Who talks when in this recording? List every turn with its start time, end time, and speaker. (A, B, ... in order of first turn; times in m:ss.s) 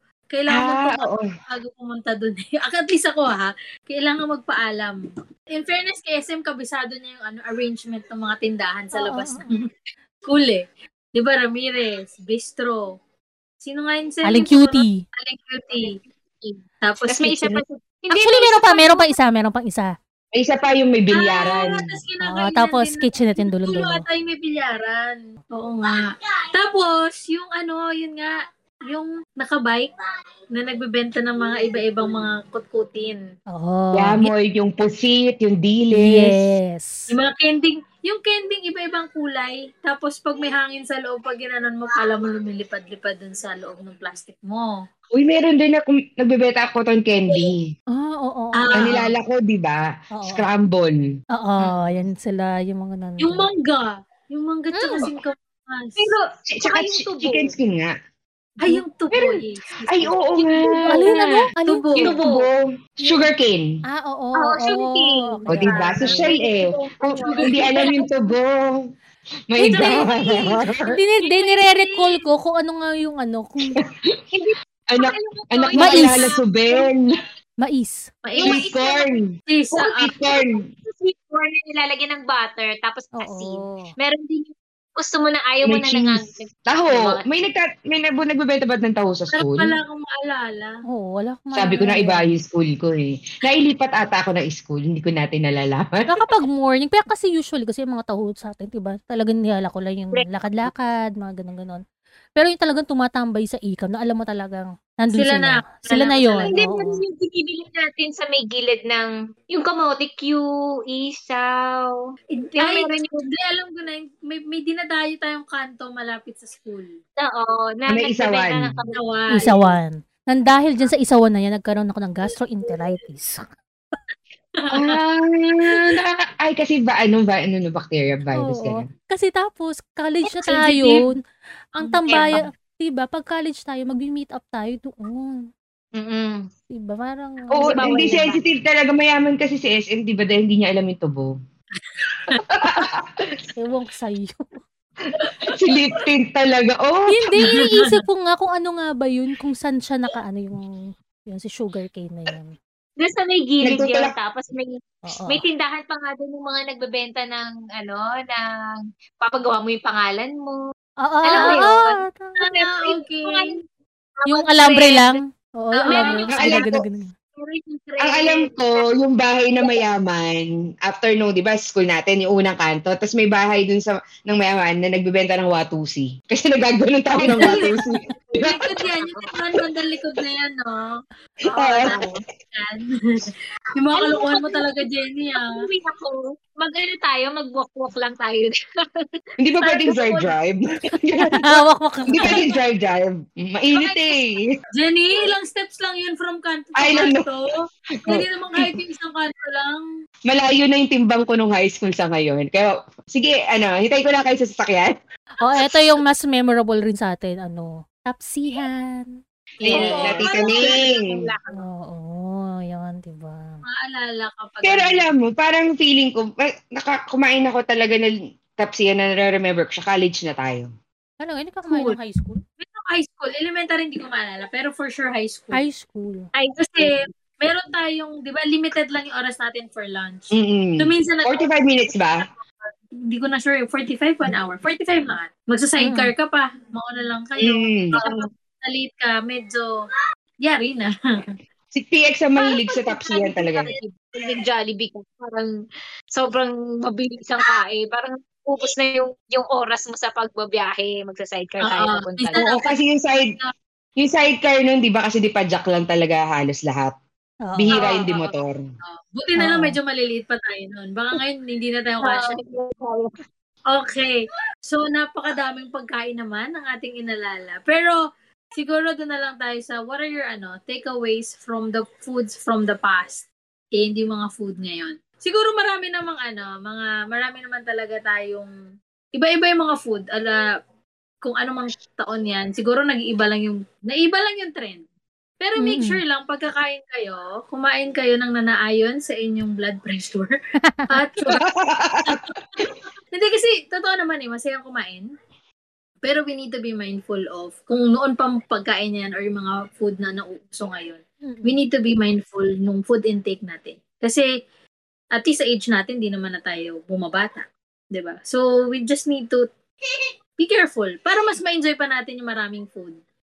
0:00.3-0:05.0 A
0:00.5-0:01.2 B
0:05.5-0:09.6 A
0:09.0-0:09.5 C
0:10.3-0:10.6 A
0:11.1-0:12.9 A
0:13.6-0:16.0 A
0:14.2-0:15.0 C
0:15.8-0:19.1 D
0:16.8-0:17.6 A
0:18.1-0:19.9 C
0:20.3-0:21.9 B
0:21.2-0:28.4 A
0:22.2-0:24.0 C
0:28.9-0:29.9 A
0:30.5-0:33.2 A
0:33.5-0:34.3 C
0:34.0-0:36.5 B
0:35.9-0:37.0 C
0:37.1-0:44.8 A
0:45.1-0:47.6 B
0:47.9-0:48.7 C
0:48.6-0:49.1 A
0:48.7-0:51.0 B
0:50.2-0:50.4 C
0:51.4-0:53.5 C
0:51.6-0:52.0 D
0:53.2-0:56.1 A
0:54.7-0:55.0 C
0:56.0-0:57.5 D
0:56.5-0:57.9 B
0:58.6-1:02.1 A
0:59.9-1:01.5 B
1:00.9-1:02.0 C
1:02.0-1:02.5 D
1:02.0-1:03.7 B
1:03.9-1:06.3 C
1:04.4-1:05.3 D
1:05.5-1:08.7 B
1:05.5-1:06.5 A
1:06.4-1:08.1 D
1:07.1-1:08.1 A
1:09.5-1:11.0 B
1:09.6-1:12.2 A
1:10.9-1:13.8 C
1:14.3-1:16.8 D
1:14.9-1:17.1 B
1:15.8-1:16.2 C
1:17.6-1:18.1 C
1:18.2-1:20.2 A
1:18.4-1:20.6 B
1:20.8-1:27.2 D
1:23.2-1:23.9 C
1:25.6-1:29.7 B
1:29.3-1:30.7 A
1:30.9-1:32.3 C
1:31.5-1:36.1 B
1:36.1-1:41.8 C
1:42.4-1:47.0 C
1:45.1-1:46.5 A
1:46.4-1:52.0 D
1:52.4-1:56.9 A
1:52.6-1:53.3 D
1:57.2-1:59.5 D
1:57.9-1:58.8 B
1:58.9-1:59.8 A
1:59.3-2:03.4 C
2:04.6-2:05.0 A
2:04.7-2:08.9 B
2:05.7-2:06.0 A
2:08.3-2:11.1 C
2:10.4-2:11.0 A
2:11.8-2:15.4 C
2:11.8-2:12.4 A
2:12.1-2:12.4 D
2:16.0-2:16.5 D
2:16.7-2:18.3 C
2:17.5-2:21.3 B
2:17.8-2:18.4 D
2:22.0-2:22.4 A
2:22.5-2:23.4 B
2:23.6-2:24.4 C
2:25.2-2:25.6 A
2:25.5-2:27.3 B
2:27.1-2:30.7 C
2:27.5-2:27.9 A
2:31.3-2:32.5 C
2:33.0-2:40.6 D
2:33.6-2:34.1 B
2:35.1-2:35.4 C
2:41.0-2:42.4 C
2:41.2-2:42.0 D
2:41.3-2:41.6 A
2:42.4-2:43.5 A
2:42.5-2:43.6 D
2:44.2-2:45.2 D
2:44.2-2:47.1 C
2:45.8-2:46.3 A
2:45.9-2:46.5 D
2:46.3-2:46.8 B
2:47.4-2:48.8 D
2:48.0-2:58.9 B
2:57.2-3:01.0 A
2:59.0-2:59.3 D
3:01.5-3:02.0 B
3:01.5-3:05.6 A
3:04.0-3:04.7 D
3:05.4-3:09.2 D
3:09.4-3:14.5 B
3:09.6-3:10.3 A
3:11.3-3:12.4 C
3:12.2-3:12.5 A
3:14.8-3:19.8 A
3:16.8-3:17.3 B
3:18.0-3:18.7 B
3:20.3-3:24.9 B
3:25.4-3:29.1 C
3:29.6-3:30.8 A
3:29.6-3:31.3 B
3:29.7-3:31.6 D
3:31.5-3:33.6 C
3:33.8-3:35.1 A
3:34.6-3:40.7 B
3:41.2-3:42.4 C
3:41.7-3:42.0 A
3:42.6-3:45.6 A
3:45.5-3:46.3 C
3:46.4-3:47.0 D
3:46.6-3:59.7 A
3:50.3-3:52.2 B
3:55.8-3:56.1 C
3:57.4-3:57.9 B
3:57.9-3:58.3 D
4:00.4-4:00.9 A
4:01.7-4:03.7 B
4:02.5-4:03.7 A
4:03.8-4:05.5 D
4:06.1-4:12.4 D
4:11.6-4:12.8 A
4:12.4-4:13.3 B
4:14.0-4:17.0 B
4:17.5-4:17.7 C
4:17.6-4:18.6 B
4:17.7-4:18.3 A
4:18.8-4:22.4 A
4:19.4-4:19.8 C
4:22.0-4:23.1 D
4:23.7-4:27.9 A
4:28.5-4:33.3 A
4:33.8-4:38.5 A
4:39.2-4:40.4 A
4:41.2-4:44.8 A
4:45.4-4:50.3 A
4:45.6-4:46.0 C
4:50.9-4:51.4 A
4:51.3-4:52.7 B
4:52.0-4:55.0 A
4:56.0-5:04.3 A
5:01.2-5:01.6 C
5:05.2-5:09.4 A
5:10.4-5:13.0 A